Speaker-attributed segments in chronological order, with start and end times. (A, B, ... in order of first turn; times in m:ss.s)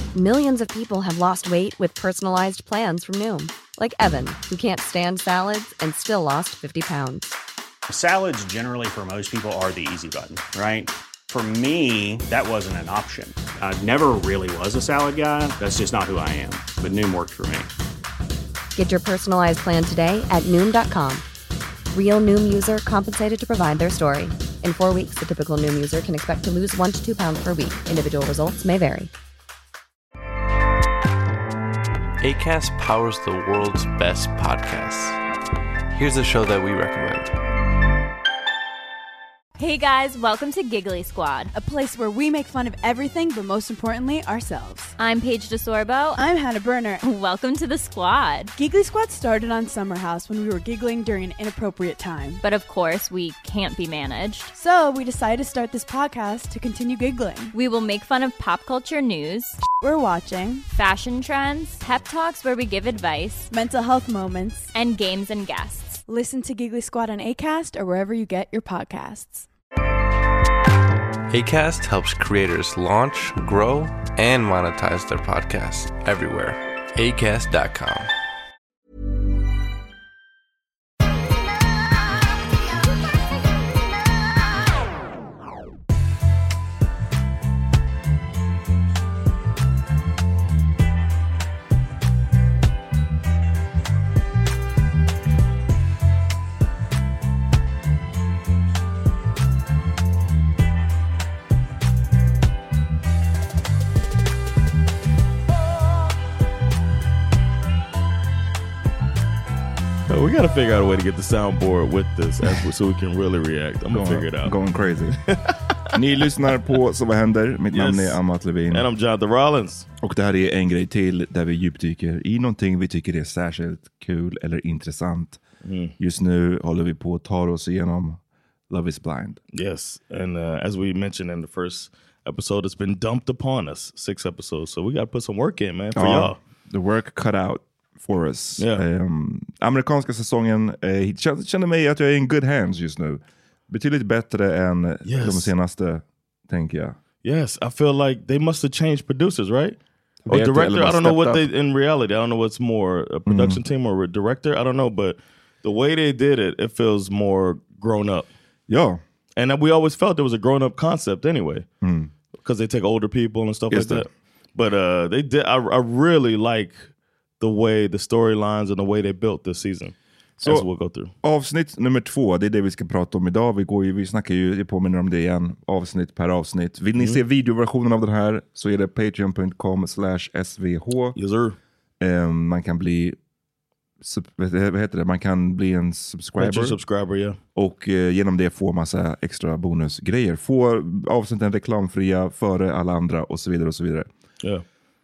0:00.2-0:07.3 A
0:07.9-0:17.7 B
0:18.8-0:21.2 A
0:21.9-0:29.1 A
0:32.2-0:35.2 C
0:35.9-0:37.4 C
0:39.6-0:41.5 D
0:41.5-0:44.9 E
0:45.0-0:46.2 D
0:46.2-0:47.0 E
0:47.0-0:48.5 D
0:48.6-0:52.4 E
0:52.4-0:54.5 D
0:54.5-0:57.5 E
0:57.5-0:59.6 D
0:59.8-1:00.7 E
1:00.7-1:03.5 D
1:03.5-1:04.7 E
1:04.7-1:06.0 D
1:06.1-1:09.5 E
1:11.3-1:18.1 C
1:50.1-1:54.6 F
1:53.9-1:55.2 G
1:55.9-1:58.9 G
1:57.7-1:58.2 F
1:58.7-1:59.9 F
2:00.0-2:05.4 G
2:05.6-2:05.9 F
2:06.0-2:09.4 G
2:09.5-2:16.4 F
2:16.0-2:27.0 G
2:18.6-2:18.8 F
2:25.1-2:25.5 F
2:27.2-2:29.8 F
2:30.3-2:31.5 G
2:30.3-2:38.3 F
2:33.3-2:33.6 G
2:38.7-2:39.0 G
2:39.4-2:41.7 F
2:41.8-2:42.1 G
2:42.4-2:46.9 F
2:43.7-2:44.1 G
2:47.4-2:51.1 F
2:50.4-2:50.7 G
2:51.2-3:01.2 G
3:01.2-3:01.6 F
3:02.0-3:03.2 G
3:04.0-3:06.8 G
3:06.4-3:07.4 F
3:07.6-3:14.1 G